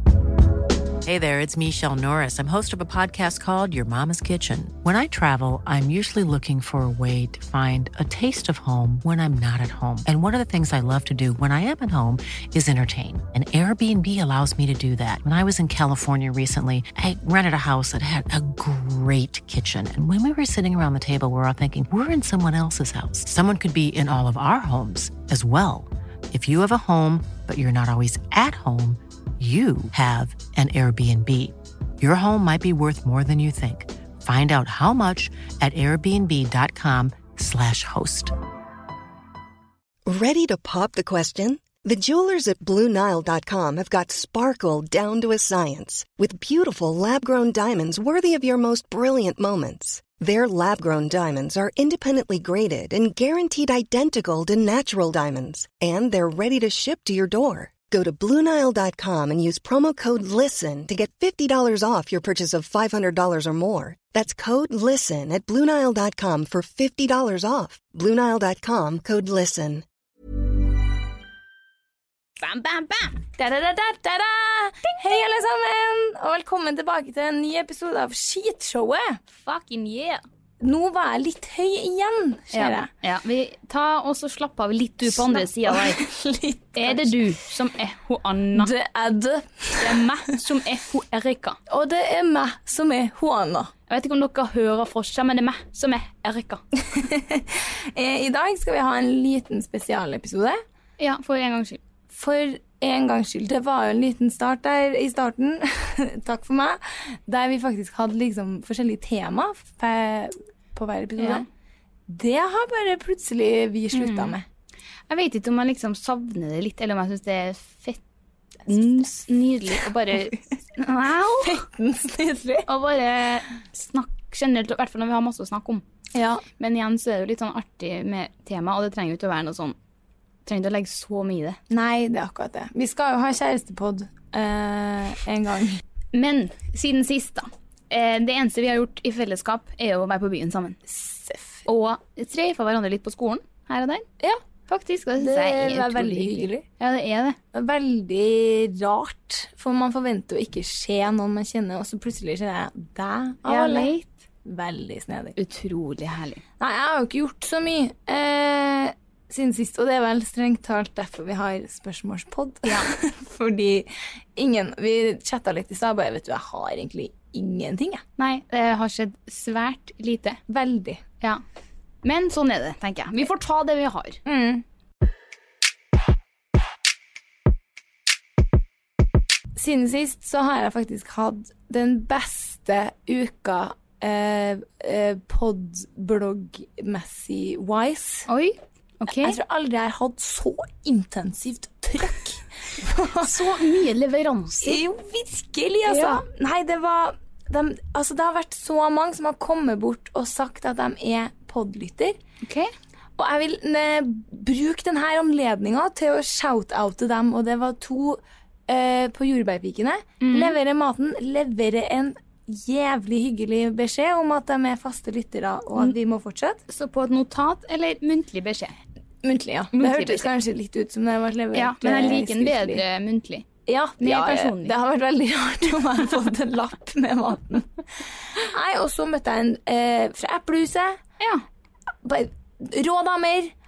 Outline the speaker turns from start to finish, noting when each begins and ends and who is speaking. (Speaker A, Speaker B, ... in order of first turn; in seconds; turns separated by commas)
Speaker A: 1.0-38.3, Speaker B: 40.0-69.8, Speaker C: 72.4-73.2, Speaker D: 73.3-79.2, Speaker C: 79.3-80.2, Speaker D: 80.6-82.9, Speaker C: 82.5-86.0, Speaker D: 85.0-87.3, Speaker C: 86.8-88.7, Speaker D: 88.5-90.0, Speaker C: 89.8-91.6, Speaker D: 91.7-93.7, Speaker C: 93.9-96.6, Speaker D: 96.8-100.6, Speaker C: 101.0-101.8, Speaker D: 102.1-111.5, Speaker C: 111.2-111.5, Speaker D: 112.1-114.5, Speaker C: 113.9-114.3, Speaker C: 115.1-118.0, Speaker C: 118.7-121.6, Speaker D: 121.4-122.7, Speaker C: 122.7-125.8, Speaker D: 126.1-126.4, Speaker C: 126.6-129.8, Speaker C: 130.4-131.6, Speaker D: 131.7-135.8, Speaker C: 136.1-140.8, Speaker D: 140.9-141.6, Speaker C: 141.7-144.1, Speaker C: 144.7-147.4, Speaker D: 145.2-146.6, Speaker D: 147.5-153.9, Speaker C: 153.4-154.1, Speaker D: 154.4-155.4, Speaker C: 155.3-156.4, Speaker D: 156.6-168.0, Speaker C: 168.2-170.4, Speaker D: 170.5-171.0, Speaker C: 172.0-174.2, Speaker D: 174.2-174.6, Speaker D: 179.5-188.3, Speaker C: 188.3-189.4, Speaker D: 189.1-193.4, Speaker C: 193.2-194.8, Speaker D: 194.6-202.2, Speaker C: 195.9-196.2, Speaker C: 202.4-202.7, Speaker D: 203.2-216.6, Speaker C: 210.2-210.6, Speaker C: 216.7-218.7, Speaker D: 219.2-222.8, Speaker C: 219.7-220.3, Speaker C: 221.5-223.4, Speaker D: 223.7-231.0, Speaker C: 224.0-224.7, Speaker C: 231.2-231.4, Speaker D: 232.0-233.5